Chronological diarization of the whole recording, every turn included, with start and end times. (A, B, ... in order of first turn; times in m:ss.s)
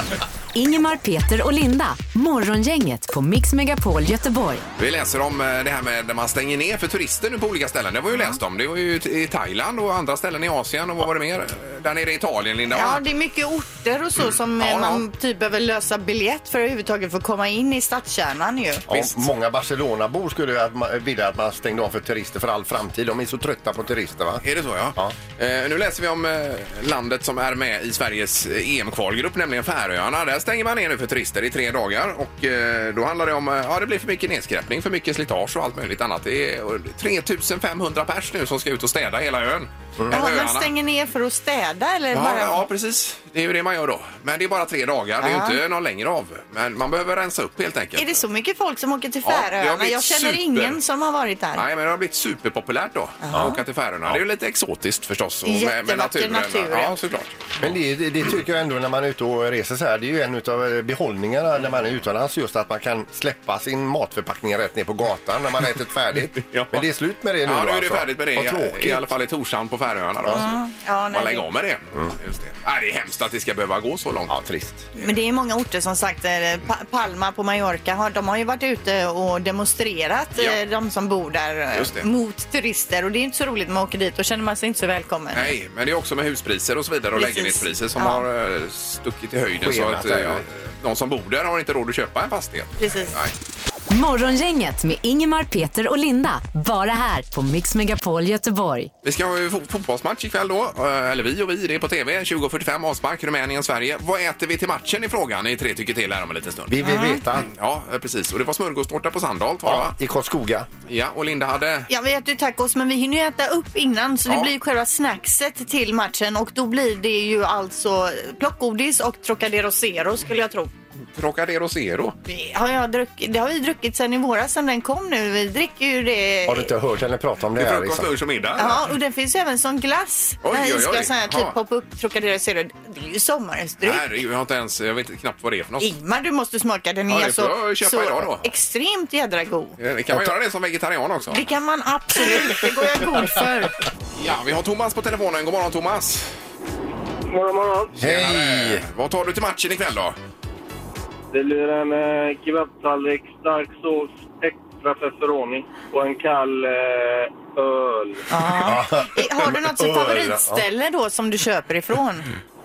0:00.5-0:04.6 A
0:04.8-0:13.0 B
0:12.7-0:18.9 C
0:14.6-0:15.0 B
0:18.9-0:24.4 D
0:24.4-0:40.7 B
0:40.1-0:42.6 C
0:42.1-0:48.2 B
0:45.2-0:45.6 C
0:48.0-0:51.6 C
0:49.2-0:50.8 B
0:51.6-0:57.4 B
0:53.2-0:53.6 C
0:53.3-0:54.2 D
0:55.4-0:57.0 C
0:57.6-1:09.1 D
1:06.4-1:06.8 B
1:07.4-1:10.6 B
1:10.3-1:11.4 C
1:11.1-1:14.4 B
1:14.3-1:14.8 D
1:15.0-1:25.6 C
1:21.7-1:22.1 B
1:25.3-1:33.4 B
1:27.2-1:28.2 C
1:29.6-1:30.4 D
1:32.8-1:33.2 C
1:33.9-1:38.9 A
1:39.0-1:46.8 B
1:46.7-1:47.5 D
1:46.8-1:47.2 C
1:47.4-1:50.0 B
1:49.6-1:50.7 D
1:50.9-1:51.9 B
1:51.9-2:00.7 C
2:01.1-2:02.2 B
2:02.3-2:06.7 C
2:06.5-2:08.1 D
2:07.6-2:08.9 B
2:08.6-2:14.0 C
2:10.4-2:11.6 B
2:13.8-2:15.9 B
2:15.8-2:19.8 C
2:17.1-2:18.5 B
2:19.8-2:21.4 B
2:21.3-2:23.8 C
2:24.2-2:26.3 B
2:27.3-2:28.0 E
2:28.0-2:28.8 D
2:28.0-2:30.2 B
2:31.3-2:38.2 E
2:38.3-2:42.3 C
2:38.6-2:40.6 D